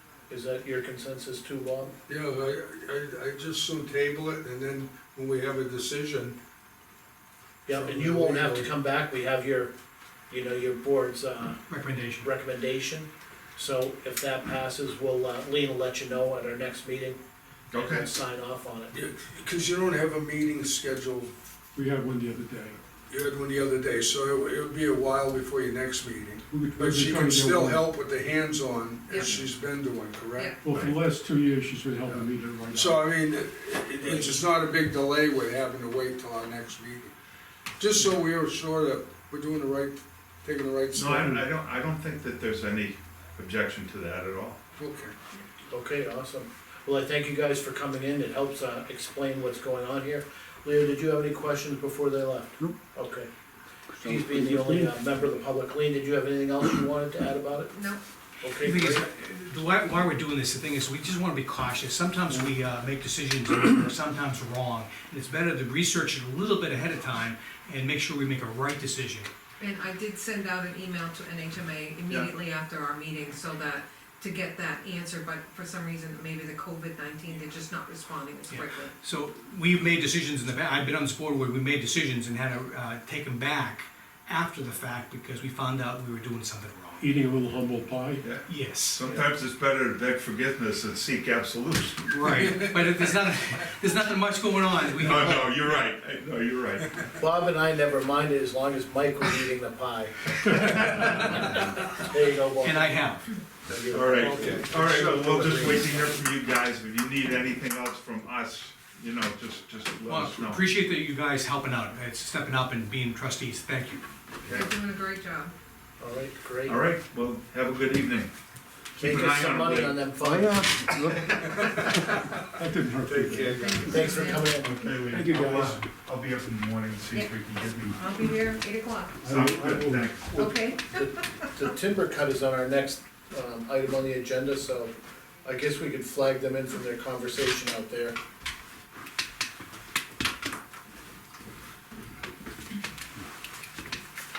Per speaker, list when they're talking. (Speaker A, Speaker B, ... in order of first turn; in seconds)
Speaker A: 0.3-1.9, 7.7-9.7, 10.3-11.6, 12.2-17.2, 17.7-19.0, 45.7-53.3, 54.0-57.8, 58.4-59.0, 97.2-103.1, 103.6-106.0, 116.0-116.8, 119.0-120.7, 123.8-124.7, 130.9-134.9, 135.4-138.2
Speaker B: 2.1-6.3, 7.7-8.6, 18.9-21.3, 23.1-30.9, 32.6-37.1, 37.8-41.3, 44.7-45.1, 121.5-121.8, 123.0-123.8
Speaker C: 11.7-12.2, 58.6-69.3, 78.5-87.1, 88.5-89.2, 92.1-95.6, 102.6-103.3, 110.1-114.0
Speaker D: 17.7-18.1, 40.9-44.6, 88.2-92.6, 94.9-97.1, 103.9-110.7, 114.4-114.7, 116.7-118.3, 119.0-120.1, 124.5-128.4, 129.2-130.6
Speaker E: 21.7-22.8, 26.5-27.8, 30.6-33.0, 87.0-88.2, 120.3-124.0, 125.1-125.8, 129.2-130.1
Speaker F: 29.1-29.4, 30.3-30.6, 57.7-58.0, 69.6-78.9, 114.5-115.5, 123.6-124.5, 127.9-129.2, 130.4-131.3